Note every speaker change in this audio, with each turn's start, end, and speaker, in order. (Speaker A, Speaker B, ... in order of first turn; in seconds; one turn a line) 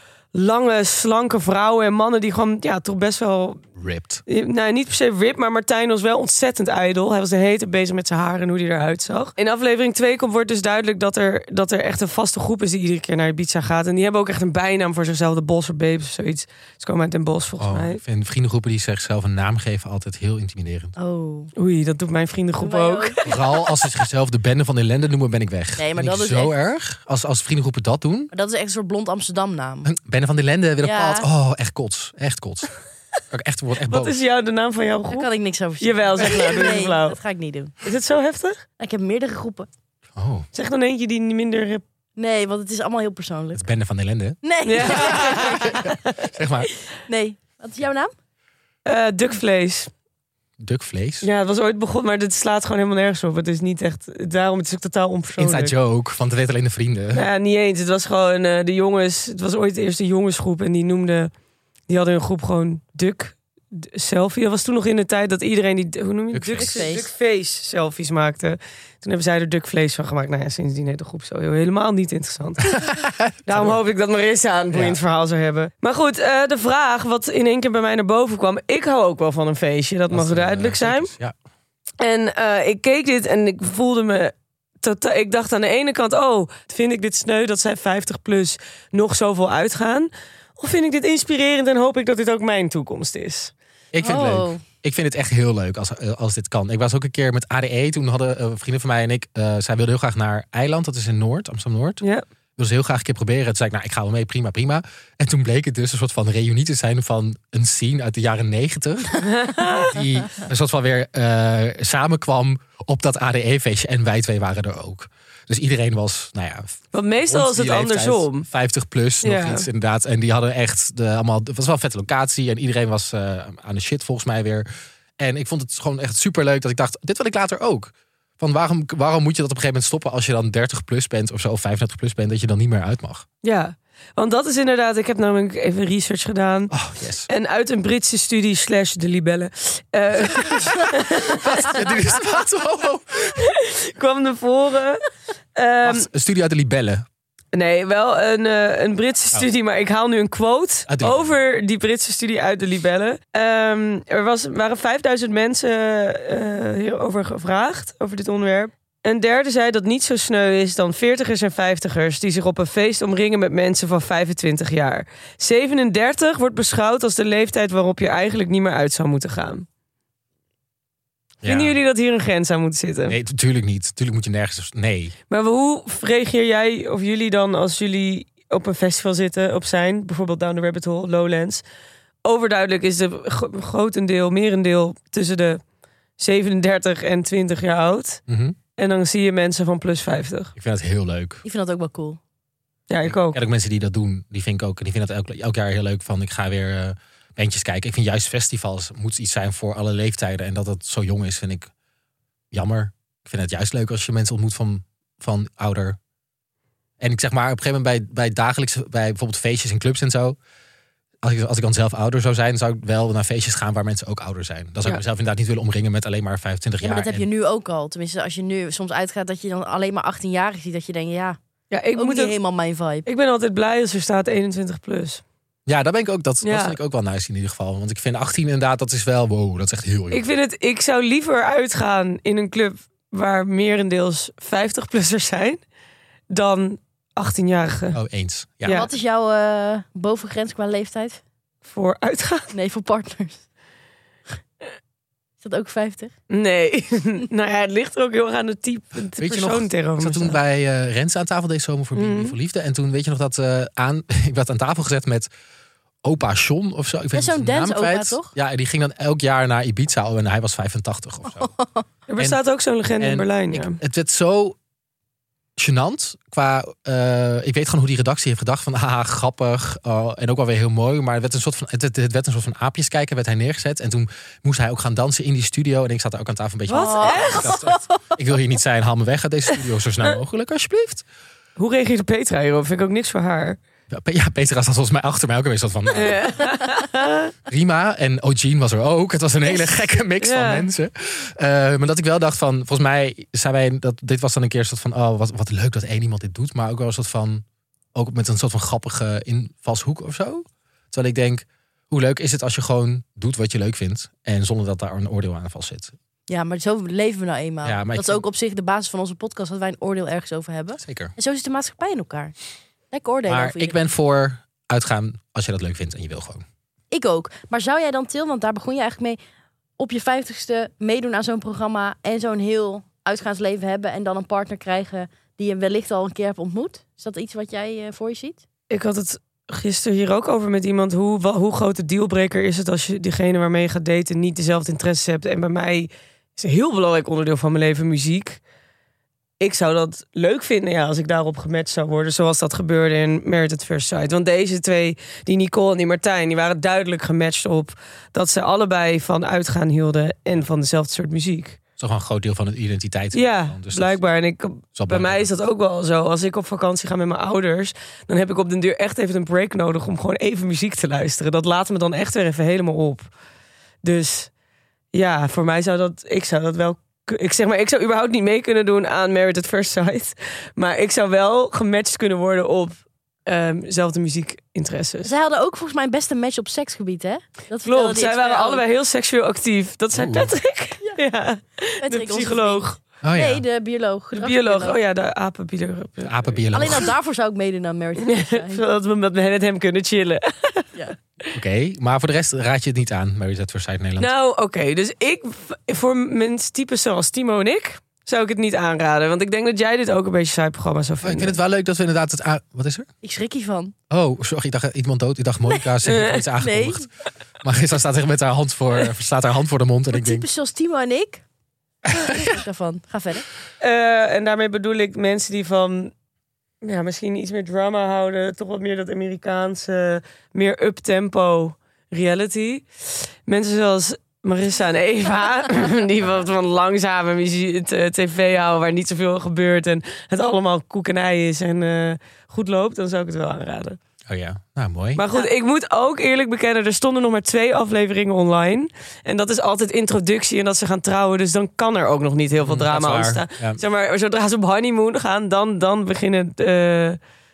Speaker A: 0.3-3.6
Speaker B: 3.8-4.2
Speaker A: 4.3-18.0
Speaker B: 17.6-20.9
Speaker C: 21.0-21.5
Speaker A: 21.6-23.9
Speaker C: 22.6-23.2
Speaker B: 23.3-28.3
Speaker C: 25.8-26.6
Speaker C: 28.3-29.9
Speaker B: 29.9-32.7
Speaker C: 30.8-31.3
Speaker B: 33.3-34.2
Speaker A: 33.9-35.3
Speaker C: 35.1-37.7
Speaker A: 35.8-37.2
Speaker A: 37.8-38.6
Speaker C: 38.8-39.7
Speaker B: 40.2-40.5
Speaker A: 40.5-41.8
Speaker C: 42.2-43.6
Speaker B: 43.5-46.7
Speaker C: 44.4-45.8
Speaker A: 44.6-45.9
Speaker C: 47.1-48.1
Speaker A: 48.9-49.9
Speaker B: 50.6-51.3
Speaker A: 51.2-55.7
Speaker B: 55.4-57.3
Speaker A: 57.1-61.3
Speaker A: 61.9-72.9
Speaker B: 66.3-66.9
Speaker C: 66.6-67.1
Speaker B: 72.7-73.8
Speaker A: 73.5-81.1
Speaker B: 74.7-75.0
Speaker B: 80.1-81.3
Speaker A: 82.0-93.5
Speaker B: 93.9-102.0
Speaker C: 94.0-94.6
Speaker B: 102.6-133.2
Speaker A: 109.2-110.0
Speaker A: 116.9-118.5
Speaker A: 119.2-119.7
Speaker A: 133.4-136.8
Speaker B: 136.7-137.3
Speaker A: 137.3-142.0
Speaker B: 140.2-143.5
Speaker A: 143.4-146.1
Speaker B: 145.8-147.1
Speaker A: 147.5-169.7
Speaker B: 150.9-151.3
Speaker B: 171.4-171.8
Speaker A: 171.4-173.2
Speaker B: 173.1-175.2
Speaker A: 175.3-181.6
Speaker A: 182.2-185.6
Speaker A: 186.2-188.2
Speaker B: 188.3-188.6
Speaker A: 188.8-190.5
Speaker B: 190.6-191.4
Speaker C: 191.4-192.2
Speaker A: 192.9-193.4
Speaker B: 193.0-201.7
Speaker B: 202.5-206.0
Speaker B: 207.0-210.4
Speaker B: 211.2-217.3
Speaker C: 216.8-221.4
Speaker A: 221.7-222.3
Speaker C: 222.0-223.1
Speaker A: 223.1-225.2
Speaker B: 225.7-230.3
Speaker A: 226.4-226.8
Speaker A: 230.1-235.6
Speaker A: 236.3-238.0
Speaker B: 237.9-238.9
Speaker A: 238.6-238.9
Speaker C: 238.7-241.2
Speaker A: 241.6-242.5
Speaker C: 242.5-243.4
Speaker C: 245.4-246.1
Speaker A: 246.3-250.4
Speaker B: 249.2-255.3
Speaker A: 251.9-252.3
Speaker B: 256.0-261.5
Speaker C: 257.1-258.3
Speaker C: 261.4-261.9
Speaker A: 262.1-263.8
Speaker B: 263.0-264.6
Speaker B: 265.6-281.1
Speaker A: 276.7-277.6
Speaker C: 276.7-278.0
Speaker A: 281.6-283.6
Speaker B: 283.9-286.3
Speaker A: 285.9-287.3
Speaker B: 287.5-305.9
Speaker A: 290.2-290.7
Speaker C: 306.3-312.3
Speaker B: 307.6-308.2
Speaker B: 310.8-311.1
Speaker C: 312.9-313.8
Speaker B: 313.3-316.4
Speaker C: 316.9-319.2
Speaker C: 319.8-328.4
Speaker A: 328.7-338.4
Speaker A: 339.4-351.6
Speaker B: 351.8-354.0
Speaker A: 353.1-363.1
Speaker B: 354.8-355.3
Speaker A: 363.8-364.3
Speaker A: 364.9-375.1
Speaker C: 375.0-378.6
Speaker A: 377.6-382.8
Speaker B: 379.9-380.3
Speaker C: 381.8-382.6
Speaker B: 383.0-383.4
Speaker C: 383.1-384.8
Speaker A: 384.1-386.4
Speaker B: 386.0-386.9
Speaker C: 386.5-388.6
Speaker A: 388.0-390.7
Speaker B: 391.3-394.1
Speaker A: 394.0-401.4
Speaker B: 401.0-402.9
Speaker C: 403.0-403.7
Speaker B: 403.9-406.9
Speaker A: 405.9-406.2
Speaker C: 406.4-406.9
Speaker B: 407.4-410.3
Speaker C: 409.9-411.2
Speaker B: 411.9-412.3
Speaker C: 412.0-413.3
Speaker A: 413.6-415.9
Speaker A: 416.6-433.8
Speaker B: 434.1-435.0
Speaker A: 435.0-447.0
Speaker B: 442.4-443.6